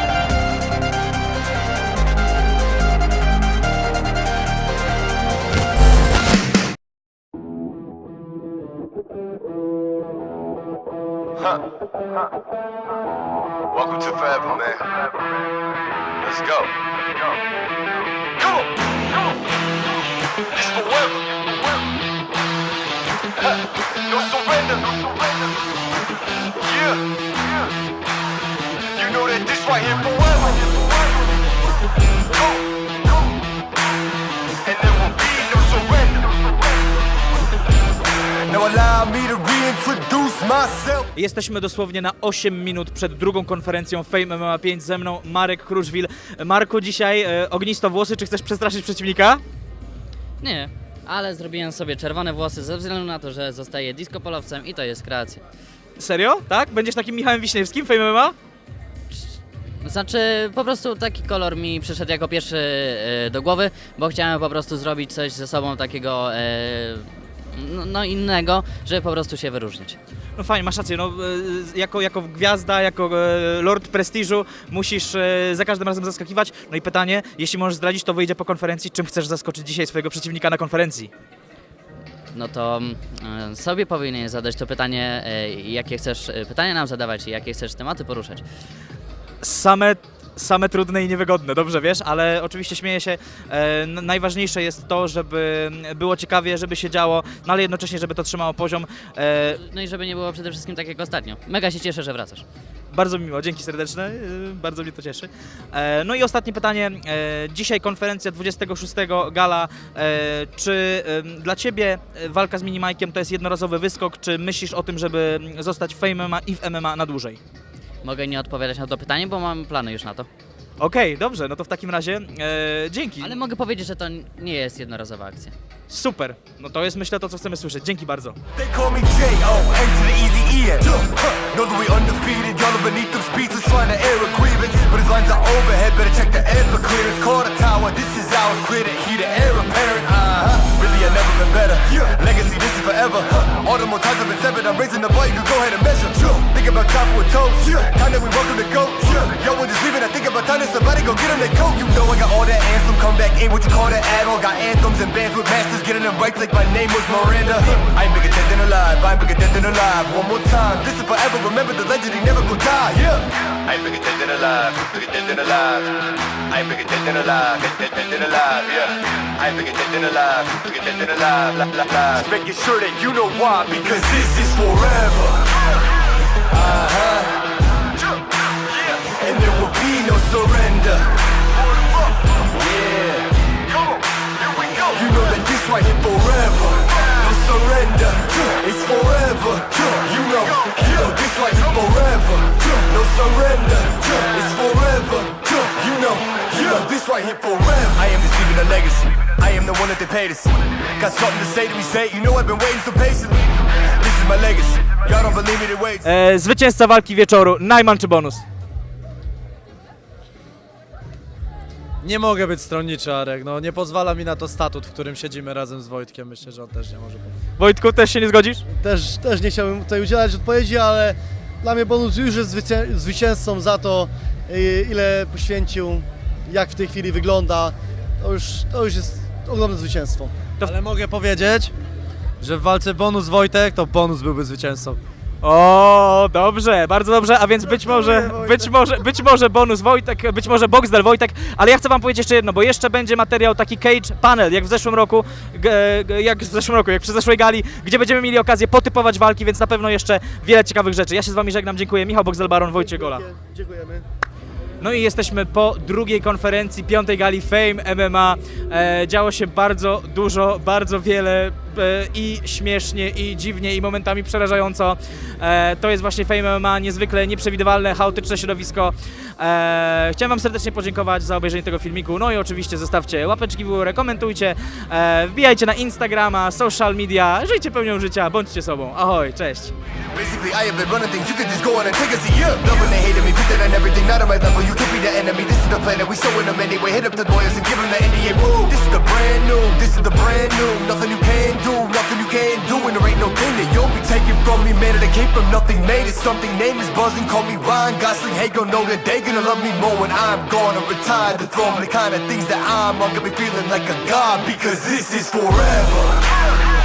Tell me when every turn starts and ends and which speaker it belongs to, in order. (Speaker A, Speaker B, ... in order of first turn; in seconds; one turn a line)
Speaker A: 13.7-15.0
Speaker A: 16.2-16.8
Speaker A: 18.4-18.7
Speaker A: 20.5-21.6
Speaker A: 23.9-25.5
Speaker A: 26.6-27.7
Speaker A: 28.9-31.3
Speaker A: 32.3-33.3
Speaker A: 34.6-36.6
Speaker A: 38.5-41.1
Speaker B: 41.1-49.4
Speaker C: 50.4-55.4
Speaker B: 56.0-58.3
Speaker C: 59.8-70.0
Speaker B: 70.3-81.1
Speaker C: 82.3-88.4
Speaker B: 89.4-99.6
Speaker C: 99.5-102.4
Speaker B: 102.9-117.4
Speaker C: 118.0-120.3
Speaker B: 120.8-123.4
Speaker C: 123.2-125.5
Speaker B: 125.9-128.4
Speaker A: 128.5-175.7
Speaker A: 176.4-177.6
Speaker A: 178.7-181.2
Speaker A: 181.8-206.1
Speaker B: 206.0-208.4
Speaker D: 212.0-217.3
Speaker B: 217.6-218.6
Speaker E: 218.7-230.3
Speaker D: 230.6-231.7
Speaker D: 232.4-235.0
Speaker B: 235.4-253.2
Speaker D: 237.7-238.7
Speaker E: 252.8-254.0
Speaker B: 254.8-279.7
Speaker A: 280.1-306.3